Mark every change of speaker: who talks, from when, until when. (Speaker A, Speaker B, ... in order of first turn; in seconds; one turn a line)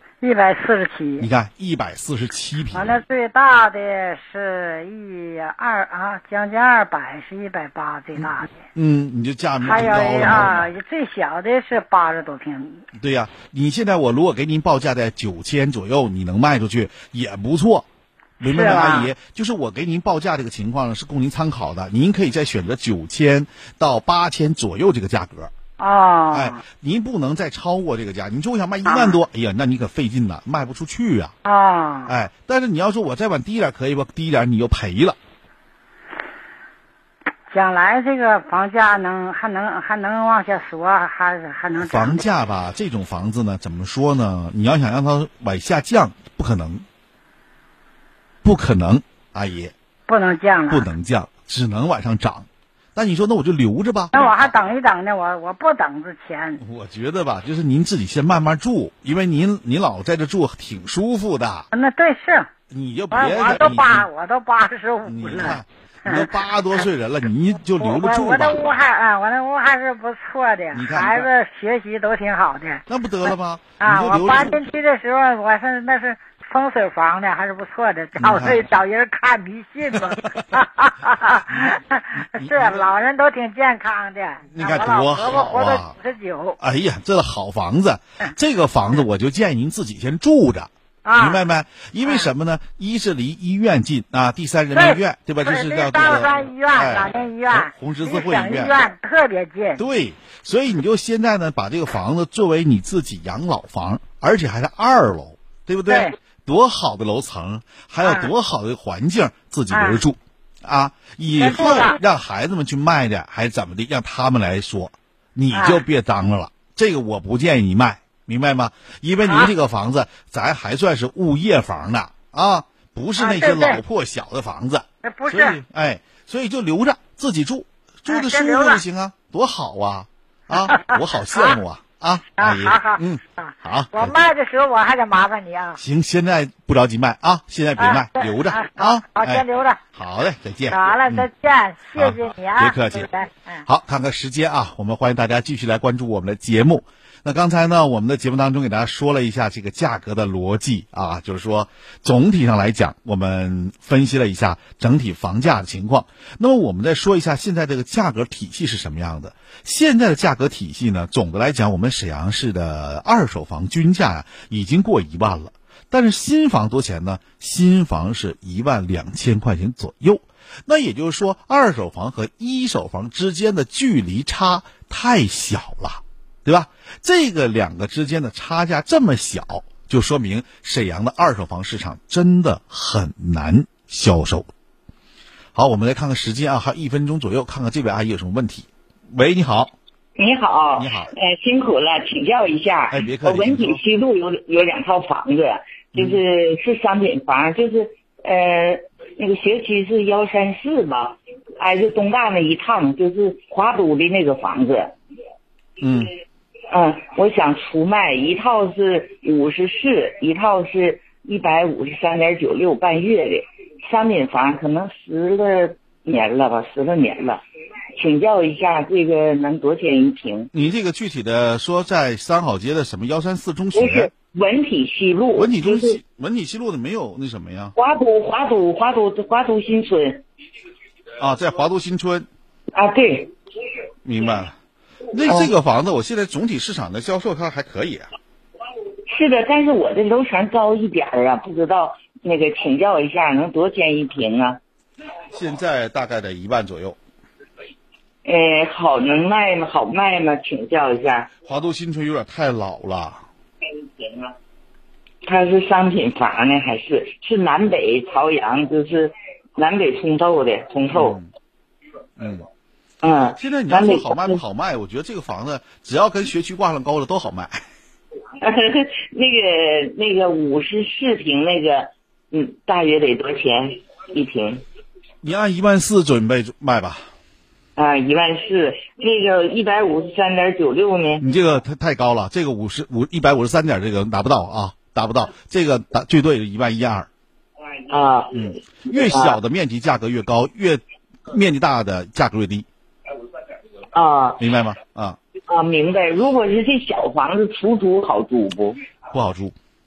Speaker A: 0.2-1.3
Speaker B: 1.2-3.0
Speaker A: 2.7-8.5
Speaker B: 8.2-10.7
Speaker A: 9.6-12.8
Speaker B: 13.0-17.9
Speaker B: 18.4-25.5
Speaker A: 18.4-19.1
Speaker A: 25.8-26.6
Speaker B: 26.3-31.4
Speaker A: 28.9-29.2
Speaker A: 31.4-32.1
Speaker B: 32.1-35.2
Speaker A: 37.5-42.2
Speaker B: 41.8-46.9
Speaker B: 48.4-49.7
Speaker A: 50.1-50.9
Speaker B: 50.7-54.5
Speaker A: 54.1-56.6
Speaker B: 56.6-61.7
Speaker A: 61.7-62.5
Speaker B: 62.7-64.1
Speaker A: 63.1-66.8
Speaker B: 65.0-68.8
Speaker A: 67.8-86.6
Speaker B: 70.7-71.3
Speaker B: 72.9-74.6
Speaker B: 78.2-78.7
Speaker B: 79.9-80.4
Speaker B: 81.5-82.9
Speaker B: 84.5-86.0
Speaker B: 86.6-98.9
Speaker A: 91.0-91.4
Speaker A: 94.7-99.8
Speaker B: 99.8-134.2
Speaker A: 105.9-106.2
Speaker A: 108.0-108.3
Speaker A: 109.7-110.0
Speaker A: 111.4-112.0
Speaker A: 115.5-115.8
Speaker A: 123.2-123.8
Speaker A: 125.0-125.6
Speaker A: 128.1-128.8
Speaker A: 130.5-131.6
Speaker A: 132.4-135.8
Speaker B: 135.8-141.3
Speaker A: 137.8-139.8
Speaker A: 140.7-143.7
Speaker B: 142.0-143.1
Speaker B: 143.7-184.5
Speaker B: 185.6-189.7
Speaker C: 190.2-204.9
Speaker B: 190.8-191.1
Speaker B: 192.9-193.8
Speaker B: 195.9-196.2
Speaker B: 205.8-206.1
Speaker C: 206.7-217.4
Speaker C: 218.0-220.5
Speaker B: 220.5-224.1
Speaker C: 223.7-226.0
Speaker B: 225.3-227.8
Speaker C: 227.8-230.2
Speaker B: 231.2-232.3
Speaker C: 232.8-233.3
Speaker B: 234.0-234.6
Speaker B: 235.1-238.1
Speaker C: 235.2-235.5
Speaker C: 239.1-244.6
Speaker B: 245.3-247.0
Speaker C: 248.2-251.3
Speaker B: 251.4-253.2
Speaker C: 253.8-254.3
Speaker C: 255.2-261.2
Speaker B: 260.9-261.3
Speaker B: 262.2-262.5
Speaker C: 263.0-264.4
Speaker B: 263.4-267.7
Speaker C: 268.4-274.6
Speaker B: 275.2-277.1
Speaker C: 277.8-281.3
Speaker B: 281.2-287.1
Speaker C: 287.9-289.4
Speaker B: 288.3-292.7
Speaker C: 293.9-294.4
Speaker B: 294.4-295.2
Speaker C: 295.5-298.8
Speaker B: 299.1-299.6